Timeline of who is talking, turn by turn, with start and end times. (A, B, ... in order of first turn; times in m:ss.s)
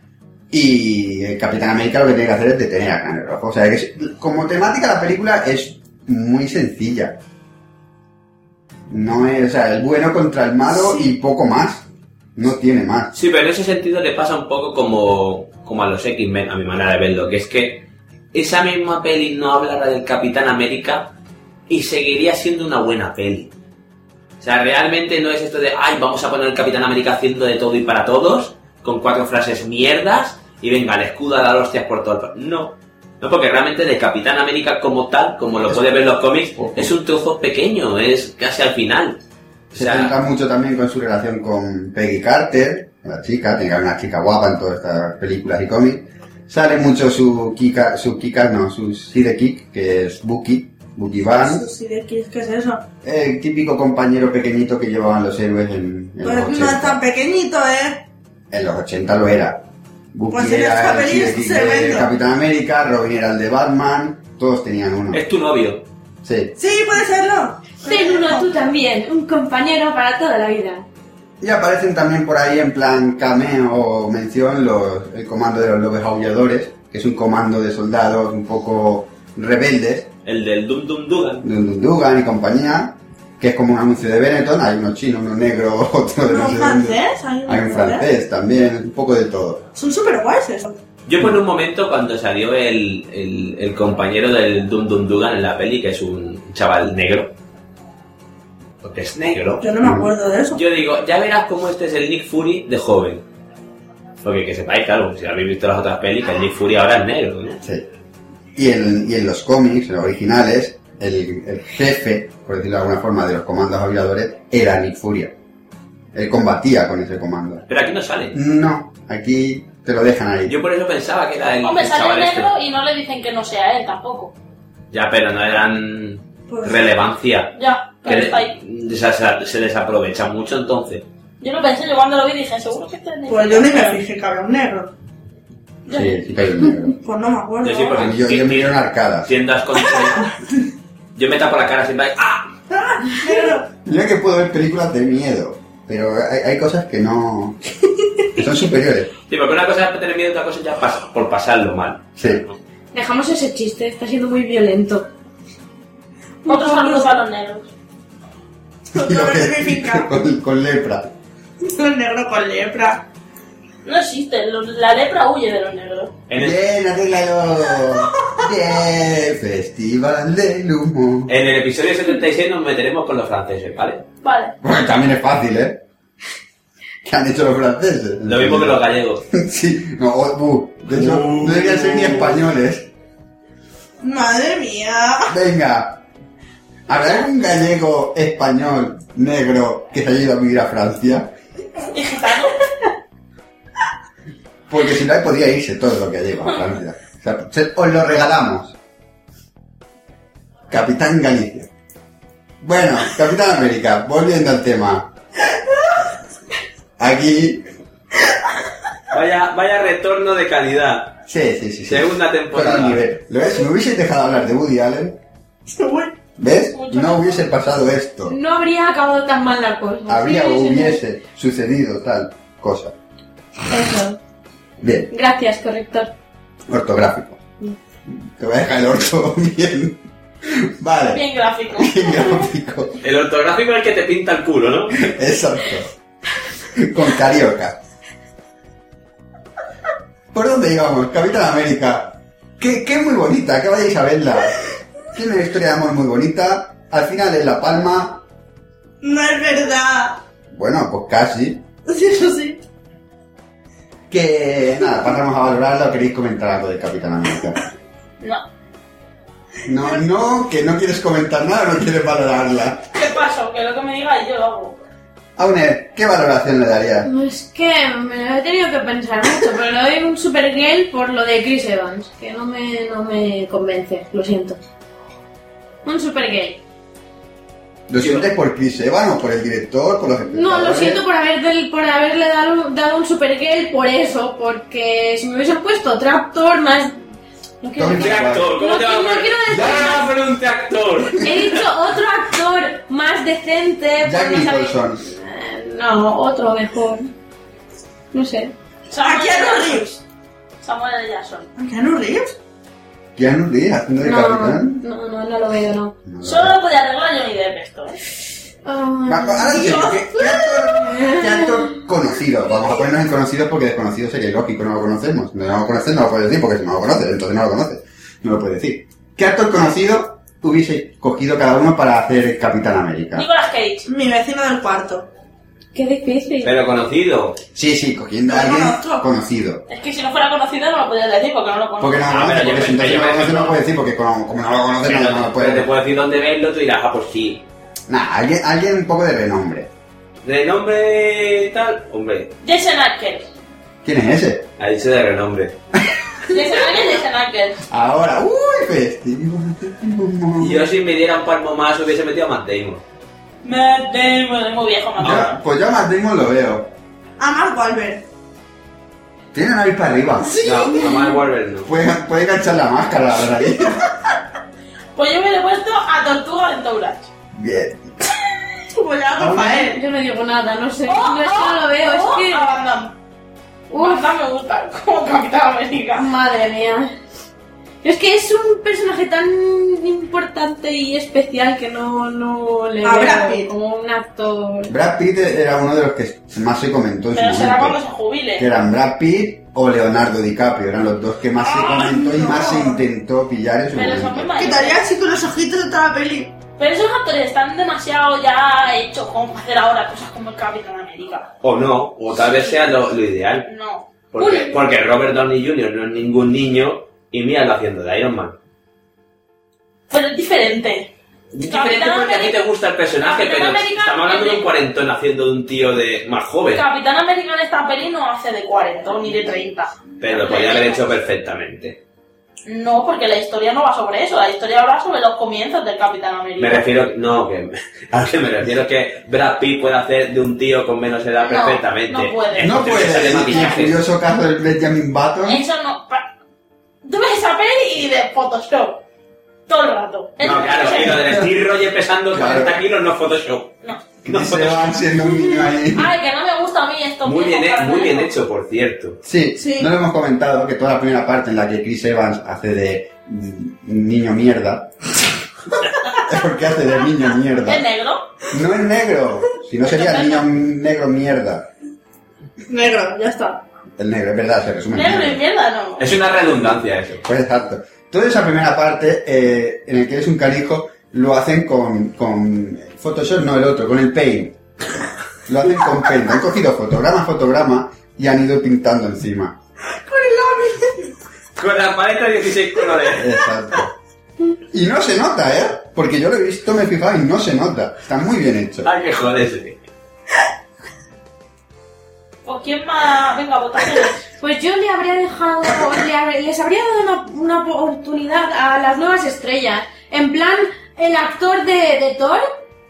0:00.5-0:07.2 A
0:08.9-0:13.1 A
0:13.1-0:21.1 B
0:21.7-0:23.5 B
0:24.4-0:39.2 B
0:36.5-0:36.9 A
0:39.7-0:51.7 A
0:39.7-0:40.2 B
0:51.4-0:52.8 C
0:53.0-0:57.0 A
0:56.2-0:58.0 C
0:58.5-1:05.2 A
1:00.3-1:02.1 C
1:05.1-1:05.8 B
1:06.2-1:06.5 A
1:06.6-1:08.5 C
1:07.8-1:10.8 D
1:11.4-1:20.1 A
1:20.2-1:21.4 B
1:21.4-1:29.7 A
1:26.3-1:28.1 C
1:29.7-1:30.8 C
1:31.0-1:37.3 B
1:38.8-1:39.7 B
1:39.6-1:40.6 C
1:39.8-1:40.1 A
1:40.5-1:43.2 B
1:44.2-1:47.6 B
1:47.6-1:47.9 A
1:48.5-1:55.3 A
1:56.1-1:57.6 A
1:57.7-1:58.3 B
1:58.3-2:00.6 A
2:00.4-2:02.5 B
2:01.6-2:04.3 E
2:04.9-2:11.0 B
2:06.5-2:06.8 C
2:07.6-2:08.5 E
2:11.4-2:14.0 E
2:13.3-2:14.9 C
2:15.9-2:16.2 E
2:15.9-2:17.0 A
2:17.0-2:18.0 C
2:17.6-2:20.3 B
2:17.9-2:19.3 A
2:21.2-2:22.5 B
2:22.7-2:23.7 C
2:23.8-2:27.6 A
2:28.3-2:29.1 A
2:29.3-2:32.6 B
2:32.2-2:32.4 A
2:32.9-2:35.1 D
2:36.4-2:37.0 D
2:36.5-2:37.7 E
2:38.9-2:40.1 C
2:38.9-2:41.1 A
2:41.6-2:43.0 C
2:43.8-2:46.1 E
2:46.3-2:46.6 B
2:46.4-2:51.3 A
2:48.0-2:48.3 C
2:51.3-2:54.0 B
2:54.2-2:54.5 E
2:54.6-2:55.8 A
2:57.0-3:02.9 A
2:58.2-2:59.2 B
3:00.9-3:02.4 B
3:04.0-3:05.3 C
3:05.3-3:06.0 A
3:06.9-3:11.3 A
3:11.8-3:12.6 E
3:14.7-3:18.8 A
3:20.7-3:21.7 A
3:22.6-3:25.1 A
3:27.0-3:27.6 A
3:29.1-3:31.2 B
3:31.3-3:35.2 A
3:31.9-3:33.0 B
3:35.7-3:36.2 C
3:36.4-3:38.4 A
3:36.7-3:37.5 E
3:38.3-3:41.0 D
3:40.0-3:42.9 A
3:43.7-3:44.2 D
3:44.8-3:45.1 A
3:45.1-3:46.1 D
3:46.7-3:47.4 A
3:48.1-3:53.0 A
3:51.1-3:52.5 E
3:53.0-3:55.0 B
3:55.0-3:55.9 A
3:56.7-3:57.8 A
4:00.3-4:08.2 A
4:09.0-4:10.2 C
4:10.5-4:11.6 A
4:11.9-4:12.6 C
4:14.1-4:17.6 A
4:19.6-4:23.0 A
4:22.9-4:24.8 E
4:25.4-4:27.1 A
4:27.0-4:34.6 D
4:35.8-4:36.6 D
4:37.9-4:41.0 A
4:38.0-4:38.3 B
4:40.3-4:47.0 D
4:47.6-4:50.1 D
4:47.8-4:48.5 A
4:47.9-4:51.7 B
4:51.2-4:57.1 D
4:54.0-4:55.0 A
4:58.1-4:58.5 D
4:58.9-5:00.0 E
4:59.0-4:59.9 C
5:00.6-5:01.5 E
5:01.6-5:02.4 C
5:03.2-5:04.8 A
5:04.0-5:06.0 D
5:06.0-5:06.6 A
5:06.2-5:08.0 E
5:08.6-5:11.7 D
5:09.0-5:23.3 A
5:09.5-5:10.0 E
5:23.1-5:23.8 E
5:23.8-5:25.1 C
5:25.7-5:26.5 D
5:26.4-5:27.4 B
5:27.5-5:29.6 A
5:28.3-5:29.1 C
5:29.7-5:32.2 E
5:31.8-5:35.7 A
5:32.1-5:33.6 B
5:34.8-5:37.4 B
5:37.9-5:39.7 A
5:40.2-5:42.3 B
5:42.4-5:43.3 E
5:43.8-5:44.5 A
5:44.6-5:45.6 B
5:45.9-5:46.4 A
5:46.3-5:47.6 E
5:47.7-5:50.7 A
5:50.4-5:52.8 B
5:53.4-5:55.3 E
5:55.0-5:56.7 A
5:55.0-5:55.3 B
5:57.2-5:58.0 C
5:59.3-6:00.8 A
6:00.2-6:01.1 C
6:00.4-6:01.7 B
6:01.6-6:03.9 A
6:05.0-6:07.1 E
6:07.3-6:07.8 A
6:08.7-6:09.8 C
6:09.2-6:09.7 A
6:09.7-6:12.4 D
6:10.8-6:12.9 E
6:13.7-6:14.0 D
6:13.7-6:16.1 E
6:15.9-6:16.9 D
6:17.8-6:24.7 D
6:22.8-6:23.5 C
6:24.7-6:27.8 A
6:27.1-6:28.5 E
6:28.4-6:34.4 A
6:31.5-6:31.9 E
6:31.6-6:32.8 C
6:33.7-6:34.9 E
6:34.4-6:36.4 C
6:36.6-6:41.3 E
6:41.4-6:43.4 B
6:42.2-6:42.6 E
6:43.4-6:44.4 E
6:44.1-6:48.4 B
6:49.9-6:50.9 E
6:51.3-6:56.6 B
6:51.5-6:52.4 E
6:53.0-6:54.5 E
6:56.5-7:00.9 E
7:00.0-7:01.8 B
7:02.4-7:06.6 E
7:06.4-7:13.8 B
7:11.2-7:13.6 E
7:12.4-7:15.4 A
7:15.2-7:16.0 E
7:16.8-7:18.8 E
7:19.5-7:21.1 E
7:20.2-7:23.5 B
7:20.9-7:21.3 A
7:22.1-7:22.6 A
7:24.0-7:25.9 A
7:24.1-7:24.8 B
7:25.7-7:28.1 E
7:27.0-7:29.0 B
7:29.0-7:34.7 A
7:29.4-7:29.7 C
7:36.0-7:37.6 A
7:37.4-7:38.1 E
7:38.3-7:41.5 A
7:39.6-7:40.3 E
7:42.5-7:43.4 C
7:43.8-7:45.2 A
7:44.7-7:45.9 E
7:45.8-7:47.0 B
7:47.0-7:54.4 A
7:55.3-7:59.4 A
7:59.7-8:00.9 C
8:01.4-8:03.1 B
8:02.9-8:03.7 A
8:04.5-8:08.7 A
8:08.6-8:09.6 B
8:12.2-8:14.0 E
8:14.2-8:22.3 D